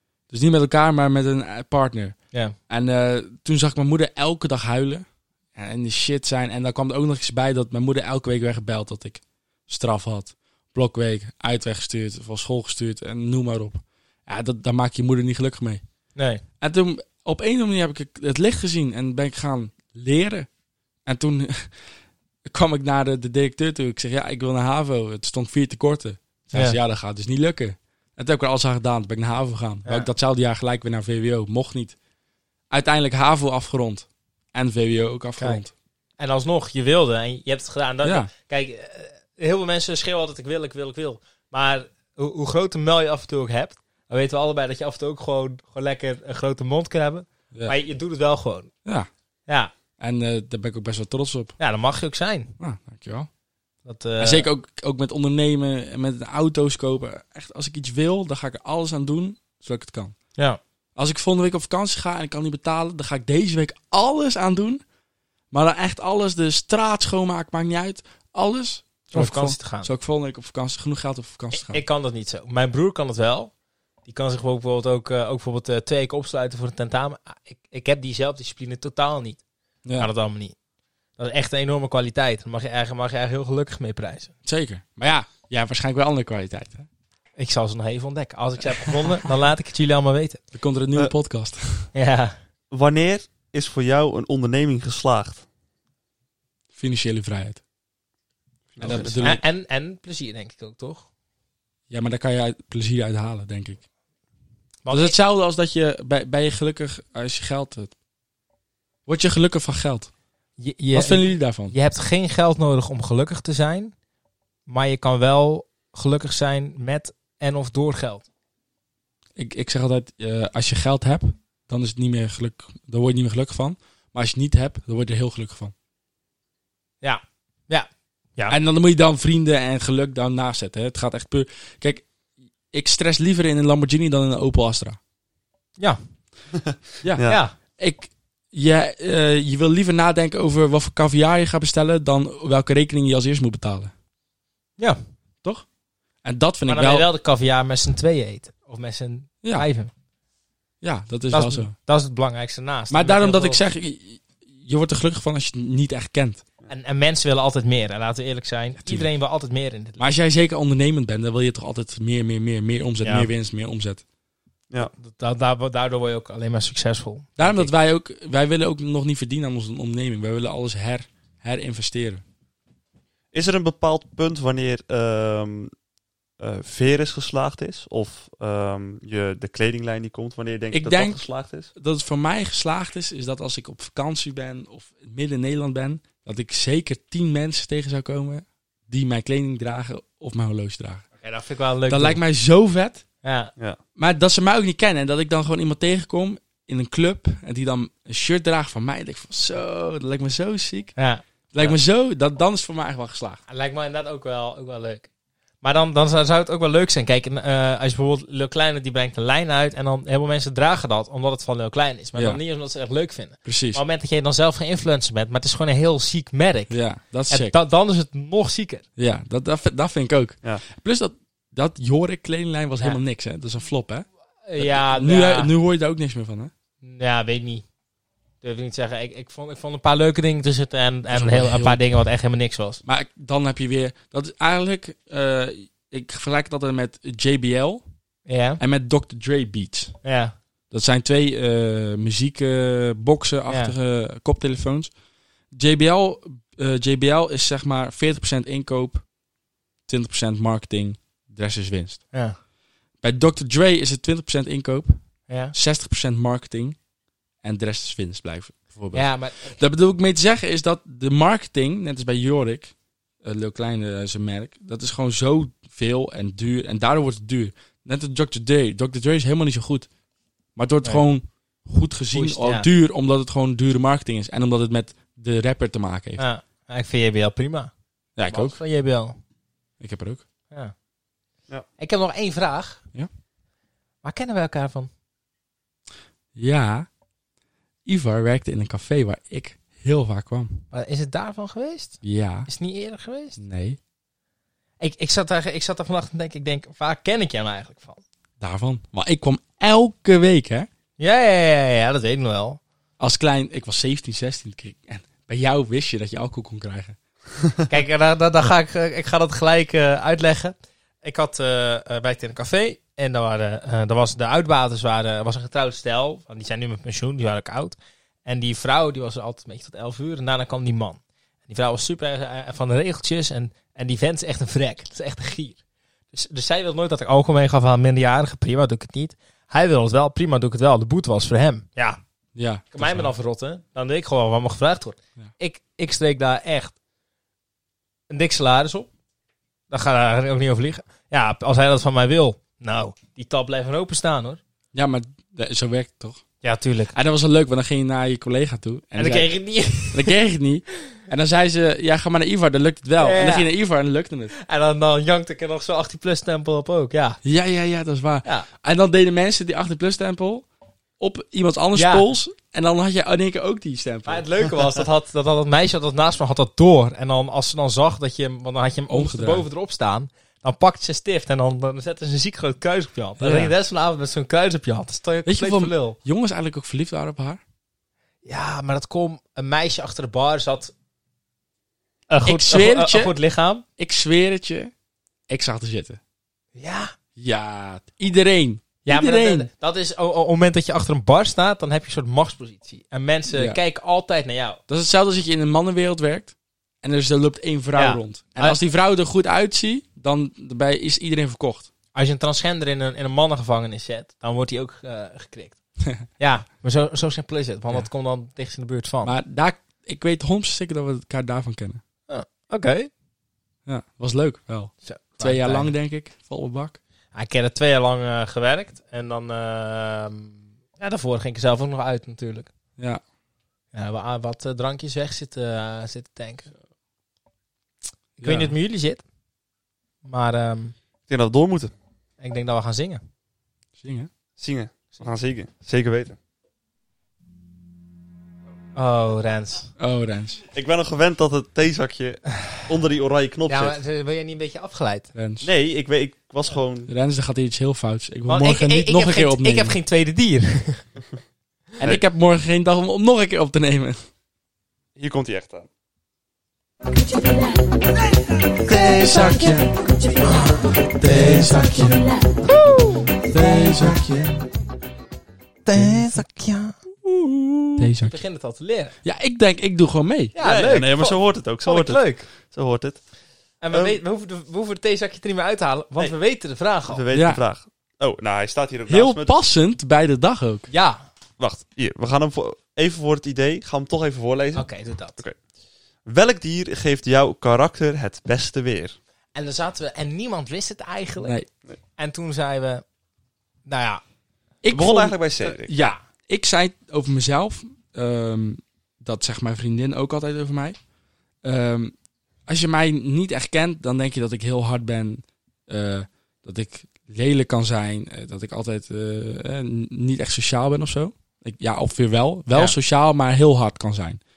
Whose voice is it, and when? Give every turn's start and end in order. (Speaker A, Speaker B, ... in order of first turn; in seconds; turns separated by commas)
Speaker A: 0.3-15.8, Speaker B: 16.2-16.4, Speaker A: 16.6-20.5, Speaker A: 21.1-21.8, Speaker A: 22.4-32.0, Speaker A: 32.7-35.7, Speaker B: 36.2-48.7, Speaker A: 38.0-38.3, Speaker B: 49.5-49.7, Speaker A: 50.0-51.6, Speaker B: 51.6-52.5, Speaker A: 52.6-53.3, Speaker B: 53.9-54.5, Speaker A: 54.2-60.2, Speaker A: 61.0-64.8, Speaker A: 65.5-71.8, Speaker B: 69.1-69.9, Speaker B: 71.5-73.5, Speaker B: 74.0-79.4, Speaker A: 79.8-80.1, Speaker B: 80.0-80.6, Speaker B: 81.2-84.3, Speaker A: 84.5-86.9, Speaker B: 87.4-90.4, Speaker A: 90.5-91.9, Speaker B: 91.9-92.4, Speaker C: 92.7-95.5, Speaker A: 96.7-97.6, Speaker C: 98.7-99.3, Speaker A: 98.8-99.4, Speaker B: 98.8-101.1, Speaker A: 101.9-103.8, Speaker B: 104.8-105.2, Speaker A: 104.9-107.9, Speaker A: 109.1-110.1, Speaker B: 110.6-113.9, Speaker A: 110.9-111.8, Speaker B: 114.7-118.2, Speaker A: 119.4-125.7, Speaker B: 127.0-128.6, Speaker A: 128.5-132.1, Speaker A: 132.7-135.0, Speaker C: 136.6-137.4, Speaker A: 137.0-143.9, Speaker B: 137.2-137.6, Speaker A: 146.2-147.1, Speaker B: 146.7-149.9, Speaker A: 150.8-151.7, Speaker B: 151.3-153.6, Speaker A: 152.9-156.4, Speaker B: 156.7-160.0, Speaker A: 160.0-164.0, Speaker B: 163.0-163.3, Speaker B: 164.8-167.7, Speaker A: 167.4-172.2, Speaker C: 173.3-175.7, Speaker C: 176.4-181.7, Speaker A: 180.7-181.2, Speaker A: 181.7-191.1, Speaker B: 191.2-192.2, Speaker A: 191.9-193.0, Speaker B: 193.2-193.5, Speaker A: 194.0-201.0, Speaker B: 201.0-201.2, Speaker A: 201.5-203.4, Speaker B: 203.5-205.1, Speaker B: 205.6-218.8, Speaker A: 213.4-213.8, Speaker A: 216.7-217.6, Speaker A: 219.0-226.5, Speaker B: 224.5-225.5, Speaker B: 226.8-227.7, Speaker B: 228.4-232.8, Speaker A: 231.1-231.8, Speaker A: 232.8-237.8, Speaker B: 238.3-238.6, Speaker A: 238.6-240.0, Speaker B: 240.0-240.3, Speaker A: 240.7-244.9, Speaker B: 243.5-243.7, Speaker A: 245.5-249.1, Speaker A: 249.9-252.1, Speaker A: 253.0-256.8, Speaker B: 255.3-255.6, Speaker A: 257.4-269.9, Speaker B: 258.9-259.6, Speaker A: 270.6-276.2, Speaker B: 272.1-272.7, Speaker B: 276.2-277.7, Speaker A: 278.2-278.6, Speaker B: 278.2-279.2, Speaker A: 279.8-280.2, Speaker B: 281.8-282.8, Speaker B: 284.0-284.9, Speaker A: 286.4-286.9, Speaker A: 287.9-290.6, Speaker B: 290.7-293.4, Speaker A: 292.0-292.5, Speaker A: 293.4-293.8, Speaker B: 294.8-298.0, Speaker A: 298.4-300.7, Speaker B: 301.0-302.6, Speaker A: 303.0-307.0, Speaker B: 307.7-325.6, Speaker B: 326.1-332.0, Speaker A: 332.4-333.1, Speaker B: 332.7-336.8, Speaker B: 338.1-338.9, Speaker B: 339.7-344.4, Speaker A: 344.7-346.2, Speaker B: 346.4-346.9, Speaker A: 346.9-354.3, Speaker B: 349.0-350.2, Speaker B: 353.0-353.5, Speaker B: 354.3-357.2, Speaker A: 357.2-360.5, Speaker A: 361.0-364.3, Speaker B: 361.8-362.1, Speaker B: 364.1-376.0, Speaker A: 368.9-369.4, Speaker A: 373.2-373.5, Speaker A: 375.2-377.4, Speaker B: 378.2-380.7, Speaker B: 382.1-383.6, Speaker A: 382.3-383.1, Speaker A: 383.8-384.7, Speaker A: 385.3-386.0, Speaker B: 386.6-386.9, Speaker A: 387.2-389.5, Speaker B: 388.9-394.6, Speaker A: 393.3-393.6, Speaker A: 394.7-401.7, Speaker B: 397.8-398.6, Speaker B: 401.9-409.1, Speaker A: 409.0-411.8, Speaker B: 412.1-412.9, Speaker A: 413.7-416.8, Speaker B: 414.8-415.7, Speaker B: 417.1-422.5, Speaker B: 423.7-426.5, Speaker B: 428.2-429.0, Speaker A: 428.2-428.5, Speaker B: 430.1-430.8, Speaker C: 431.1-431.7, Speaker B: 432.2-433.0, Speaker A: 433.8-434.1, Speaker C: 434.4-436.2, Speaker B: 438.8-439.7, Speaker A: 439.8-440.4, Speaker C: 440.5-443.8, Speaker B: 443.5-445.1, Speaker A: 445.1-445.5, Speaker C: 445.4-446.9, Speaker A: 446.9-449.8, Speaker B: 448.3-450.9, Speaker A: 451.8-454.0, Speaker C: 455.0-455.7, Speaker B: 458.7-459.7, Speaker A: 458.7-459.8, Speaker B: 460.2-460.7, Speaker A: 460.9-462.1, Speaker B: 462.4-463.1, Speaker A: 463.1-464.5, Speaker B: 465.6-466.8, Speaker A: 465.8-466.2, Speaker A: 467.8-468.2, Speaker B: 467.8-468.9, Speaker A: 469.0-470.3, Speaker B: 470.4-472.3, Speaker C: 470.4-473.0, Speaker B: 473.6-477.0, Speaker C: 473.7-474.0, Speaker C: 476.9-479.3, Speaker A: 477.1-477.4, Speaker A: 478.9-480.7, Speaker B: 480.7-481.1, Speaker C: 481.4-485.4, Speaker B: 484.6-485.2, Speaker C: 486.1-489.0, Speaker B: 489.4-491.4, Speaker B: 492.0-492.8, Speaker B: 493.7-494.0, Speaker A: 494.6-500.8, Speaker C: 494.7-495.7, Speaker B: 495.7-496.0, Speaker A: 501.4-501.9, Speaker A: 502.5-514.2